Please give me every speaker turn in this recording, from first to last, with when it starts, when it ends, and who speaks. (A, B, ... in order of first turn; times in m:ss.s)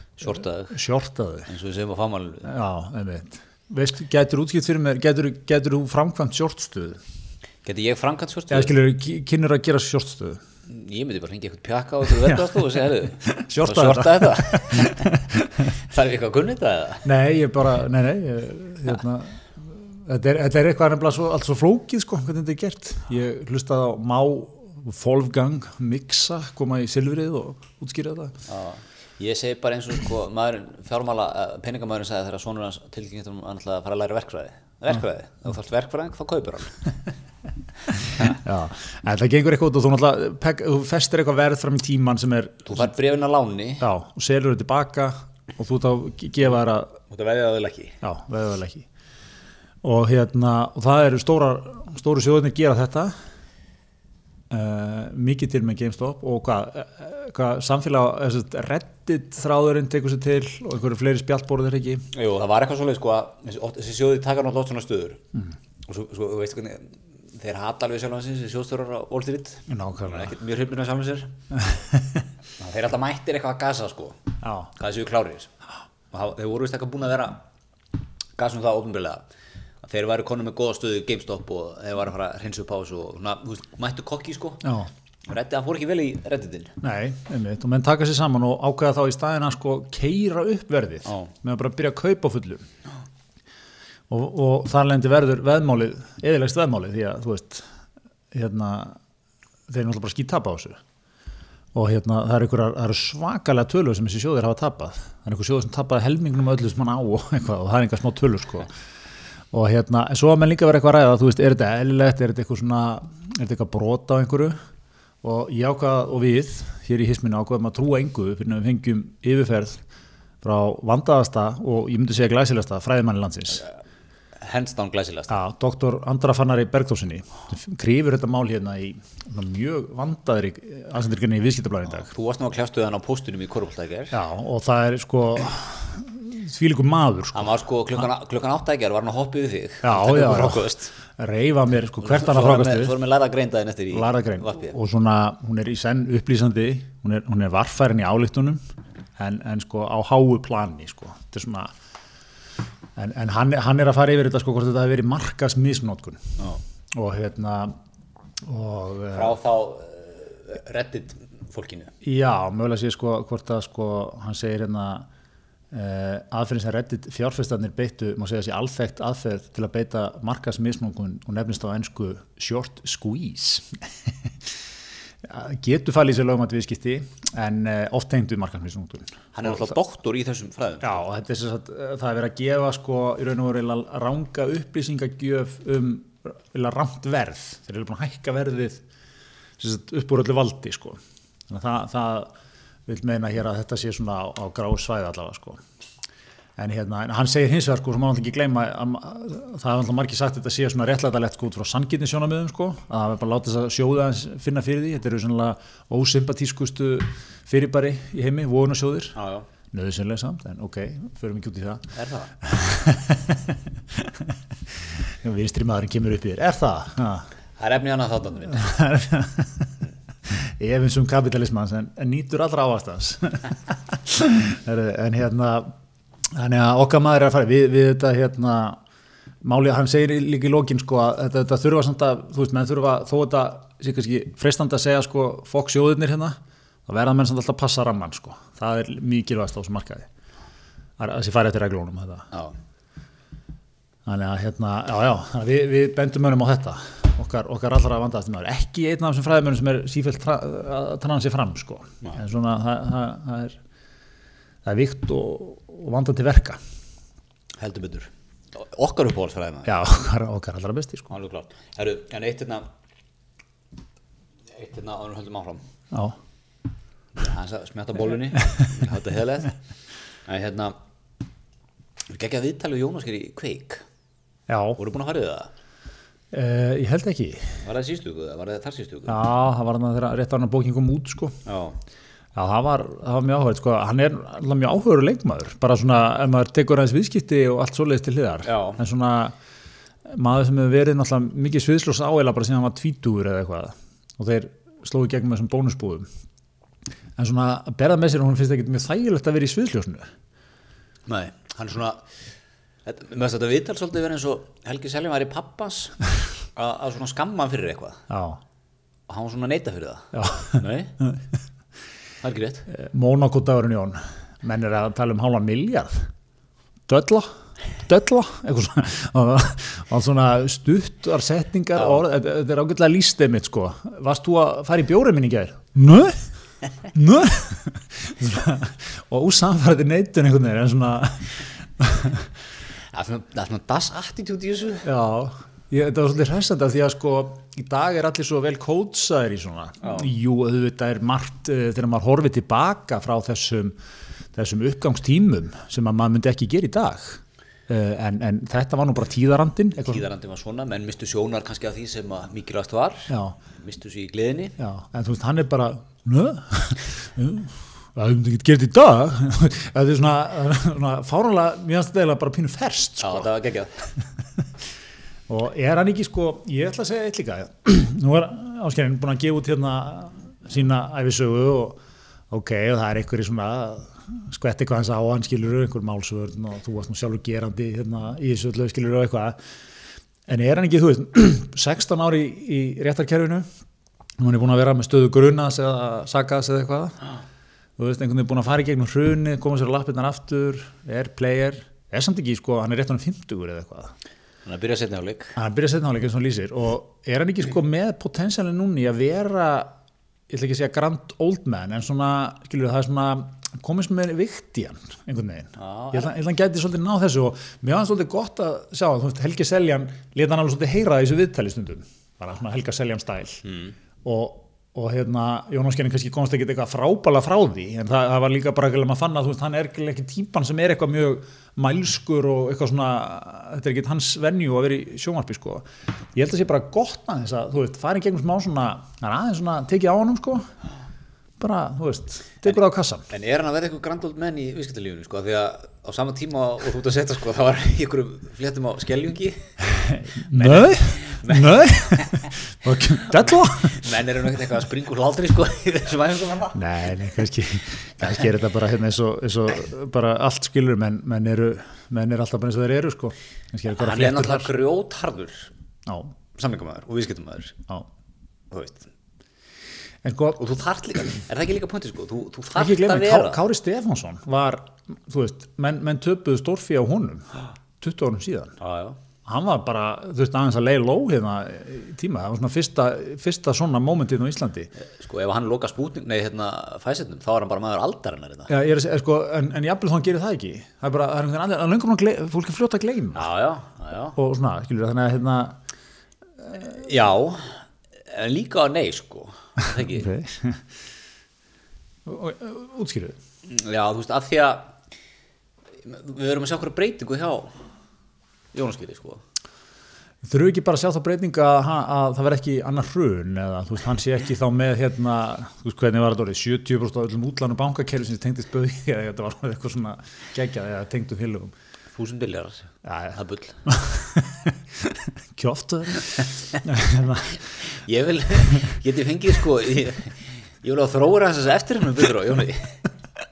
0:00.2-0:00.8 A
0:00.3-0:01.5 B
0:01.5-0:02.5 A
0:02.4-0:07.0 B
0:07.6-0:08.7 A
0:08.5-0:10.4 B
0:10.7-0:15.1 A
0:12.2-0:12.6 B
0:13.2-0:15.7 B
0:15.7-0:17.1 A
0:17.0-0:28.4 B
0:28.5-0:37.1 A
0:38.2-0:42.9 B
0:42.6-0:43.8 A
0:43.8-0:47.0 B
0:47.1-0:48.0 A
0:48.0-0:48.8 B
0:49.8-0:53.1 B
0:54.5-1:02.0 B
1:02.1-1:05.2 A
1:05.8-1:11.3 A
1:09.7-1:10.3 B
1:11.6-1:12.2 B
1:12.6-1:14.2 A
1:14.4-1:14.7 B
1:14.7-1:15.5 A
1:16.1-1:17.4 A
1:18.4-1:19.2 A
1:19.8-1:24.6 A
1:24.6-1:24.9 B
1:25.3-1:26.7 A
1:26.8-1:32.6 B
1:34.1-1:37.6 B
1:38.3-1:39.0 B
1:39.7-1:40.8 B
1:41.7-1:48.7 B
1:49.5-1:54.6 B
1:55.2-1:59.8 B
2:00.4-2:03.6 B
2:04.4-2:05.4 A
2:05.3-2:12.1 B
2:12.0-2:14.2 A
2:14.1-2:17.5 B
2:17.3-2:20.9 A
2:19.8-2:23.0 B
2:22.0-2:24.7 A
2:23.9-2:28.6 B
2:29.2-2:31.7 B
2:33.0-2:36.3 B
2:36.9-2:37.7 B
2:38.4-2:39.4 B
2:39.1-2:41.9 A
2:42.0-2:45.1 B
2:45.7-2:54.3 B
2:55.2-2:59.7 B
2:59.3-3:01.0 A
3:00.8-3:08.8 B
3:09.6-3:12.3 B
3:12.9-3:15.6 B
3:16.6-3:29.2 B
3:29.1-3:29.4 A
3:29.7-3:34.2 B
3:31.9-3:32.4 A
3:35.1-3:37.3 B
3:37.6-3:38.7 A
3:38.5-3:39.7 B
3:40.3-3:45.7 B
3:46.3-3:48.8 B
3:49.4-4:00.1 B
4:01.0-4:02.3 B
4:04.0-4:13.6 B
4:14.6-4:16.6 B
4:17.6-4:19.7 A
4:19.6-4:21.1 B
4:21.1-4:22.6 A
4:24.5-4:25.6 A
4:25.9-4:26.2 B
4:27.2-4:29.5 A
4:30.3-4:30.8 A
4:32.1-4:33.8 A
4:34.5-4:34.8 B
4:34.8-4:35.5 A
4:36.3-4:37.6 B
4:37.6-4:39.2 A
4:39.1-4:41.4 B
4:41.4-4:41.8 A
4:42.3-4:49.4 B
4:48.4-4:48.8 A
4:50.1-4:56.1 B
4:57.2-5:00.0 B
5:01.1-5:02.0 A
5:02.8-5:06.0 A
5:06.6-5:08.0 A
5:08.1-5:08.4 B
5:09.1-5:11.0 A
5:10.1-5:11.2 B
5:12.2-5:12.7 A
5:12.7-5:16.1 B
5:16.9-5:17.3 B
5:17.8-5:26.2 B
5:21.8-5:22.0 A
5:26.9-5:32.3 B
5:32.9-5:34.9 A
5:34.8-5:43.7 B
5:39.8-5:40.1 A
5:44.3-5:50.0 B
5:49.8-5:54.6 A
5:53.1-5:53.4 B
5:54.6-6:03.3 B
6:03.0-6:03.8 A
6:05.3-6:19.4 B
6:20.3-6:23.5 B
6:24.2-6:26.9 B
6:27.8-6:33.9 B
6:34.4-6:35.4 A
6:35.4-6:39.7 B
6:40.3-6:53.4 B
6:45.6-6:46.1 A
6:53.4-6:53.7 A
6:54.0-7:10.4 B
7:11.4-7:13.1 B
7:13.1-7:19.6 A
7:19.8-7:23.9 B
7:20.2-7:22.3 A
7:22.9-7:26.6 A
7:26.5-7:34.5 B
7:33.7-7:35.5 A
7:35.8-7:36.1 B
7:36.3-7:37.7 A
7:38.5-7:38.9 A
7:40.0-7:40.4 B
7:40.4-7:43.4 A
7:42.5-7:48.6 B
7:48.6-7:49.0 A
7:49.2-7:54.7 B
7:54.8-7:58.5 A
7:58.5-8:03.3 B
8:03.1-8:04.2 A
8:04.2-8:05.6 B
8:06.6-8:10.1 A
8:09.8-8:10.6 B
8:12.0-8:13.2 B
8:13.4-8:14.7 A
8:15.8-8:17.6 A
8:18.5-8:19.2 A
8:20.2-8:31.5 B
8:32.0-8:33.6 A
8:32.8-8:37.4 B
8:37.6-8:42.8 A